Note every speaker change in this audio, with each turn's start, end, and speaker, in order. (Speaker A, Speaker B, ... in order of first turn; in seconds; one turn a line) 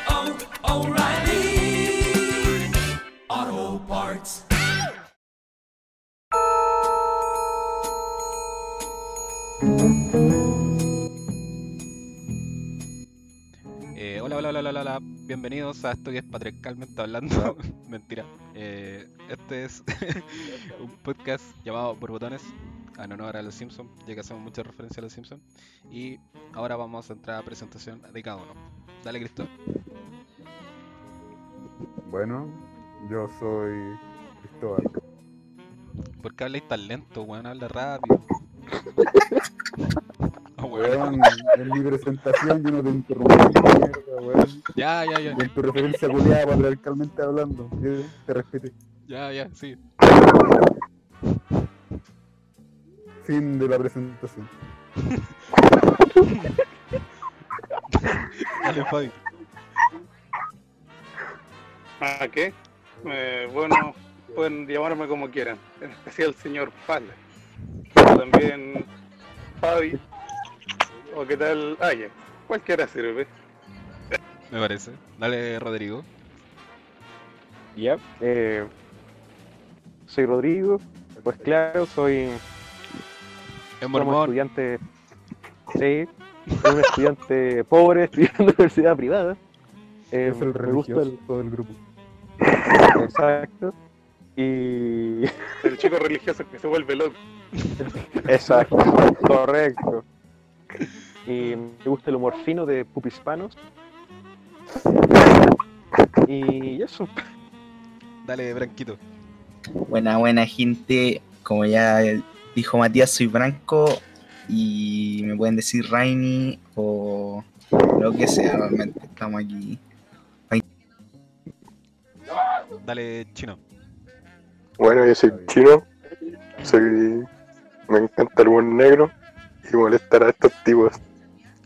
Speaker A: 13.9-29.5
Speaker B: 32.0-35.0
Speaker A: 36.2-38.3
Speaker A: 40.6-41.4
Speaker B: 40.7-44.7
Speaker A: 44.8-45.5
Speaker B: 45.3-48.7
Speaker A: 49.1-49.8
Speaker B: 53.2-54.5
Speaker A: 56.2-56.5
Speaker A: 57.9-59.2
Speaker C: 62.0-62.5
Speaker C: 63.0-67.2
Speaker C: 68.0-68.9
Speaker C: 69.6-70.0
Speaker C: 71.1-73.3
Speaker A: 74.5-76.1
Speaker D: 77.8-78.7
Speaker D: 80.1-82.4
Speaker A: 83.8-84.3
Speaker D: 83.9-84.8
Speaker D: 85.8-86.1
Speaker D: 86.6-89.4
Speaker D: 90.1-91.2
Speaker B: 90.2-91.8
Speaker D: 92.9-93.7
Speaker D: 94.4-95.3
Speaker C: 95.6-97.2
Speaker D: 97.8-100.0
Speaker D: 101.3-103.6
Speaker D: 106.3-107.2
Speaker A: 108.2-109.0
Speaker E: 109.9-119.8
Speaker A: 122.8-123.6
Speaker F: 124.8-125.8
Speaker B: 125.2-125.6
Speaker F: 126.6-127.3
Speaker F: 127.9-129.1
Speaker F: 129.7-131.0